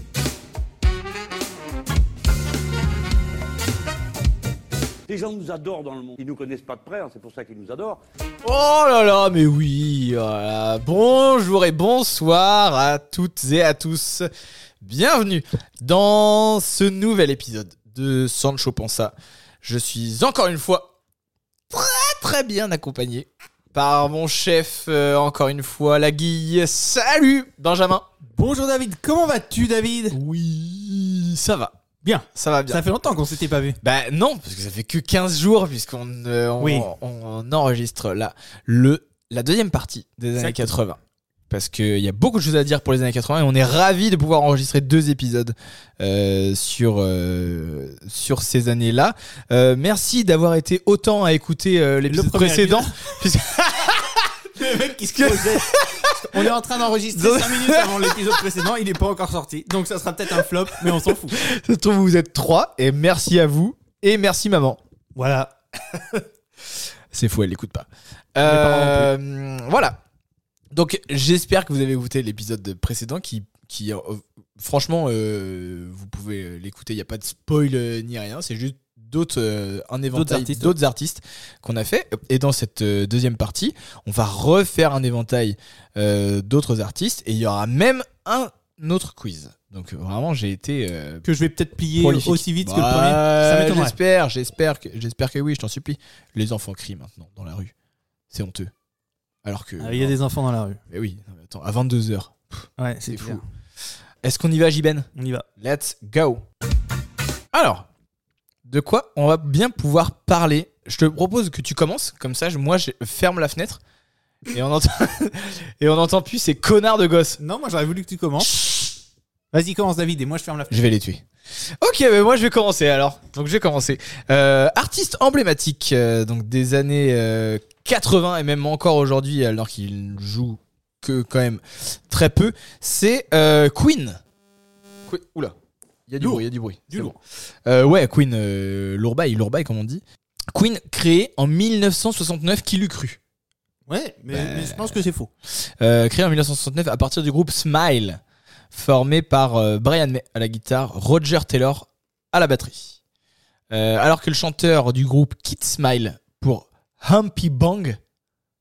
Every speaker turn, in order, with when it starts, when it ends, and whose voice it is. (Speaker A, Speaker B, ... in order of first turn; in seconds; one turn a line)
Speaker A: 5.1-8.0
Speaker B: 8.4-14.3
Speaker B: 14.8-20.9
Speaker B: 21.7-28.0
Speaker C: 28.3-30.2
Speaker B: 30.1-31.7
Speaker C: 32.0-33.8
Speaker B: 32.3-32.8
Speaker B: 33.8-41.0
Speaker C: 36.6-36.9
Speaker C: 40.4-40.7
Speaker B: 41.5-56.5
Speaker C: 52.1-53.0
Speaker C: 54.6-61.4
Speaker B: 57.1-58.4
Speaker B: 60.8-64.8
Speaker C: 65.2-65.5
Speaker B: 66.7-70.0
Speaker C: 68.4-69.1
Speaker B: 70.7-91.2
Speaker C: 80.1-80.7
Speaker C: 91.2-94.0
Speaker B: 91.9-97.7
Speaker B: 98.3-98.7
Speaker B: 99.4-100.2
Speaker C: 99.8-100.8
Speaker B: 100.9-103.4
Speaker C: 102.8-103.4
Speaker B: 104.2-106.4
Speaker C: 105.2-105.5
Speaker B: 107.5-107.9
Speaker B: 108.6-113.8
Speaker B: 114.5-117.4
Speaker C: 117.4-118.6
Speaker B: 118.4-118.9
Speaker C: 119.5-120.8
Speaker B: 120.7-134.2
Speaker B: 135.1-135.6
Speaker B: 136.1-143.2
Speaker C: 136.2-137.1
Speaker C: 143.9-145.3
Speaker B: 144.3-148.2
Speaker B: 148.7-153.0
Speaker B: 153.7-158.0